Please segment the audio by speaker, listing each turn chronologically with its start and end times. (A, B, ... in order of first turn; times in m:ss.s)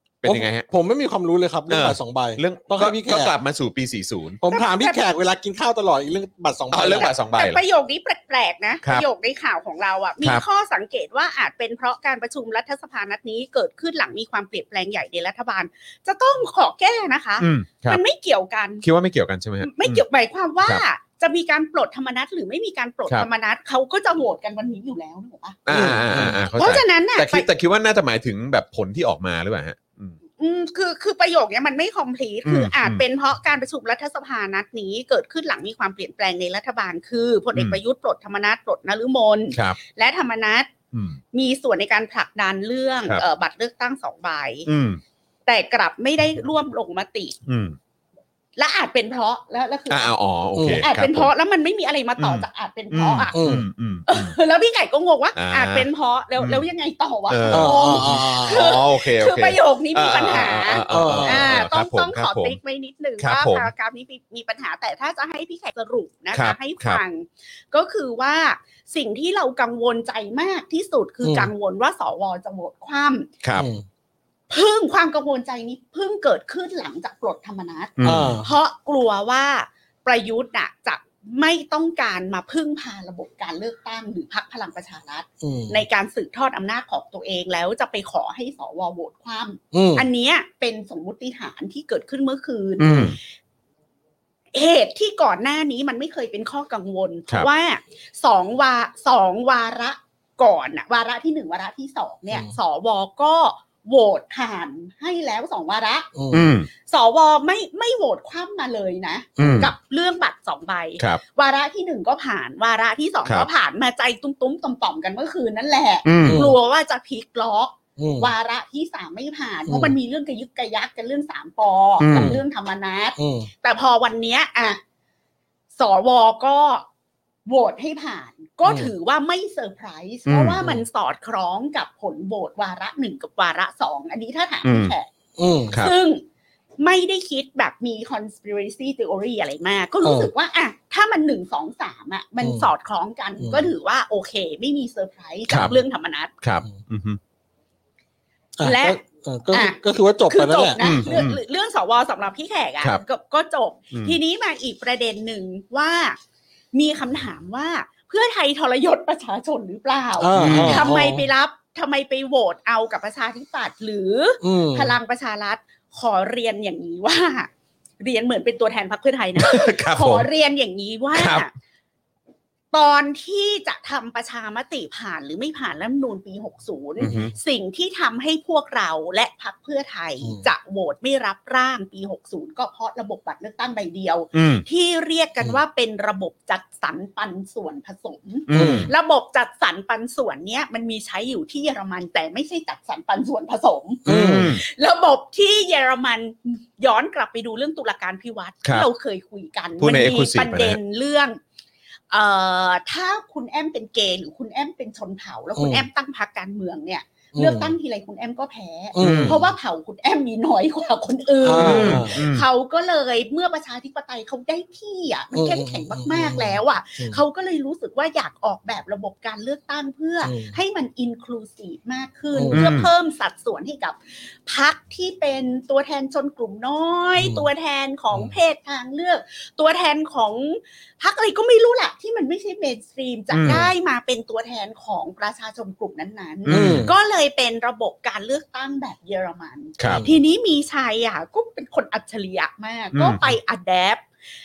0:00.2-0:00.7 A
0:00.2-0:03.3 B
0:01.7-0:04.4 A
0:04.4-0:07.1 B
0:04.5-0:05.0 C
0:06.7-0:07.6 A
0:07.0-0:18.8 C
0:17.4-0:18.0 A
0:18.8-0:20.0 A
0:19.6-0:25.6 C
0:25.7-0:30.2 A
0:25.7-0:26.4 B
0:26.6-0:27.5 C
0:30.4-0:40.7 C
0:32.5-0:33.0 A
0:39.5-0:39.8 A
0:40.9-0:41.2 A
0:41.3-0:44.7 C
0:44.7-0:45.0 A
0:45.5-0:47.4 C
0:47.5-0:47.8 A
0:48.6-0:50.1 C
0:49.9-0:51.3 A
0:50.6-0:50.9 B
0:50.8-0:53.4 C
0:52.2-0:54.4 A
0:53.3-0:53.7 B
0:54.1-1:13.3 C
0:55.4-0:56.6 A
0:57.3-1:02.6 A
0:57.5-0:58.8 B
1:00.9-1:01.6 B
1:03.2-1:03.7 A
1:06.3-1:07.0 A
1:11.2-1:11.5 B
1:13.6-1:13.8 B
1:14.5-1:33.2 C
1:18.0-1:18.4 A
1:18.0-1:18.5 B
1:25.4-1:25.8 B
1:29.7-1:30.1 B
1:32.8-1:33.2 A
1:34.5-1:46.1 C
1:46.2-1:46.5 B
1:46.3-1:46.7 A
1:46.8-2:04.8 C
1:49.4-1:49.7 B
1:49.4-1:49.7 A
1:56.0-1:56.5 A
1:56.2-1:56.6 B
1:58.0-1:58.3 B
1:59.7-2:00.0 B
2:02.0-2:02.4 A
2:02.2-2:02.4 B
2:03.2-2:03.5 B
2:05.8-2:06.9 C
2:07.5-2:15.1 C
2:08.6-2:08.9 B
2:10.3-2:10.8 B
2:14.6-2:15.0 A
2:15.4-2:15.8 B
2:15.7-2:16.2 C
2:16.8-2:26.3 C
2:20.0-2:20.3 B
2:22.4-2:22.7 B
2:23.4-2:23.7 B
2:25.5-2:25.8 A
2:26.4-2:27.2 A
2:28.6-2:31.2 B
2:28.6-2:36.2 C
2:30.8-2:31.4 A
2:36.7-2:47.5 C
2:40.2-2:41.3 B
2:40.4-2:40.8 A
2:44.4-2:45.0 B
2:48.0-2:51.5 C
2:49.4-2:50.3 A
2:51.1-2:51.5 A
2:52.7-3:21.4 C
2:57.0-2:57.3 A
3:00.2-3:00.5 B
3:04.3-3:04.6 A
3:08.5-3:08.9 A
3:08.5-3:08.9 B
3:14.0-3:14.6 A
3:14.1-3:14.5 B
3:19.8-3:20.8 A
3:22.1-4:04.0 C
3:25.6-3:25.9 B
3:27.4-3:27.8 B
3:29.0-3:29.5 B
3:29.0-3:29.4 A
3:31.4-3:32.2 B
3:31.5-3:32.4 A
3:35.3-3:37.2 B
3:40.2-3:40.6 B
3:42.4-3:42.7 B
3:42.5-3:42.9 A
3:47.2-3:47.5 B
3:53.3-3:53.7 A
3:56.5-3:56.9 A
3:56.5-3:56.9 B
3:59.8-4:00.0 A
3:59.9-4:00.2 B
4:02.9-4:03.4 A